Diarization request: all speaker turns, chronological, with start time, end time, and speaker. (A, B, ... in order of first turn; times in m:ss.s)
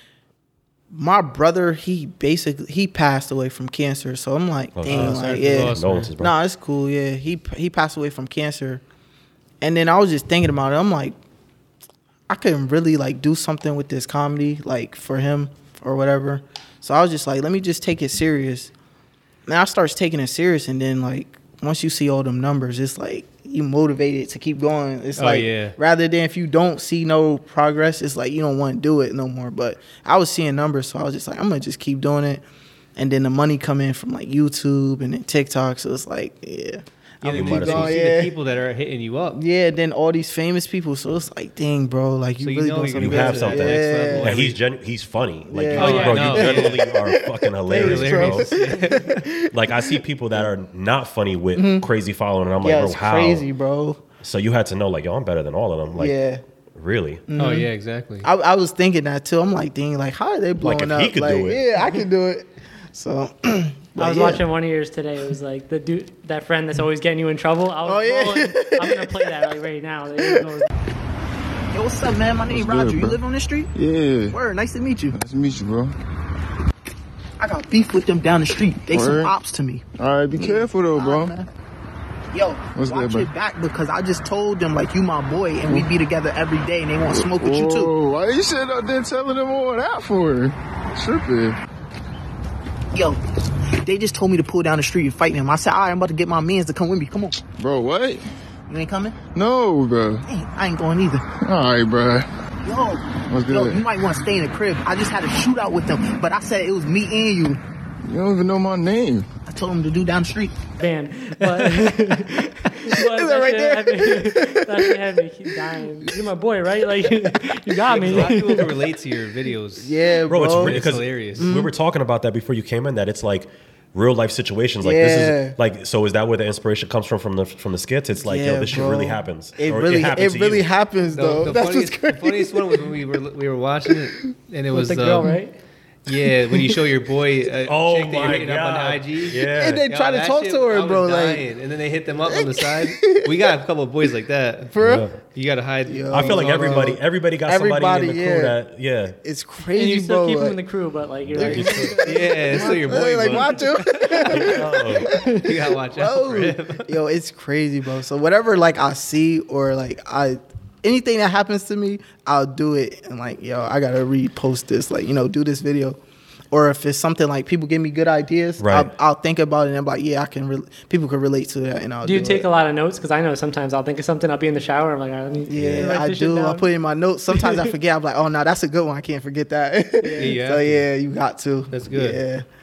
0:00.9-0:08.8 A
0:04.8-0:06.4 B
0:04.9-0:06.1 C
0:09.6-0:11.2 A
0:12.3-0:18.7 A
0:19.5-0:32.4 A
0:25.2-0:25.8 C
0:33.0-0:38.4 A
0:37.2-0:39.4 C
0:37.3-0:38.0 B
0:39.3-0:44.5 A
0:42.4-0:44.6 C
0:43.0-0:48.5 B
0:45.5-0:50.0 A
0:45.8-0:46.8 C
0:45.8-0:46.2 D
0:47.7-0:49.2 C
0:49.5-0:53.5 B
0:51.6-0:51.9 A
0:52.6-0:54.0 A
0:54.2-0:56.2 B
0:55.9-0:56.4 A
0:56.8-0:57.2 B
0:57.3-0:57.7 A
0:57.4-0:58.3 C
0:58.2-1:04.4 A
1:00.6-1:01.6 B
1:04.0-1:10.7 D
1:07.8-1:09.6 A
1:10.2-1:10.6 A
1:11.7-1:13.7 A
1:12.5-1:13.2 E
1:13.8-1:14.4 E
1:14.3-1:15.2 A
1:15.1-1:16.0 E
1:17.4-1:19.8 A
1:18.9-1:19.3 E
1:20.0-1:21.4 E
1:20.4-1:21.5 A
1:22.3-1:27.9 A
1:22.7-1:23.3 E
1:27.1-1:31.6 E
1:32.9-1:37.4 A
1:37.6-1:38.2 E
1:38.7-1:39.2 A
1:39.4-1:40.2 E
1:40.3-1:41.2 A
1:41.4-1:42.3 E
1:42.6-1:47.6 A
1:43.3-1:43.8 E
1:48.0-1:49.3 E
1:49.5-1:50.6 A
1:50.8-1:58.7 D
1:51.4-1:51.9 C
1:52.8-1:56.1 A
1:57.9-2:01.5 C
1:59.8-2:01.7 A
2:00.3-2:10.7 B
2:04.8-2:05.6 A
2:08.2-2:12.9 A
2:11.1-2:15.4 C
2:14.7-2:15.6 D
2:16.1-2:27.0 C
2:16.1-2:16.5 A
2:17.7-2:19.8 B
2:19.4-2:21.5 A
2:22.2-2:23.4 A
2:24.7-2:25.1 A
2:24.8-2:25.2 B
2:25.8-2:28.6 A
2:26.1-2:29.2 B
2:29.2-2:30.6 A
2:29.7-2:32.0 D
2:31.3-2:52.5 A
2:31.4-2:34.5 C
2:31.4-2:32.0 B
2:34.1-2:35.5 D
2:34.4-2:35.1 B
2:35.4-2:36.9 C
2:48.6-2:48.9 B
2:52.0-2:56.7 D
2:55.5-3:02.5 A
2:55.5-2:56.0 B
2:57.3-2:57.7 D
3:00.0-3:00.4 D
3:00.2-3:00.8 C
3:01.7-3:02.2 C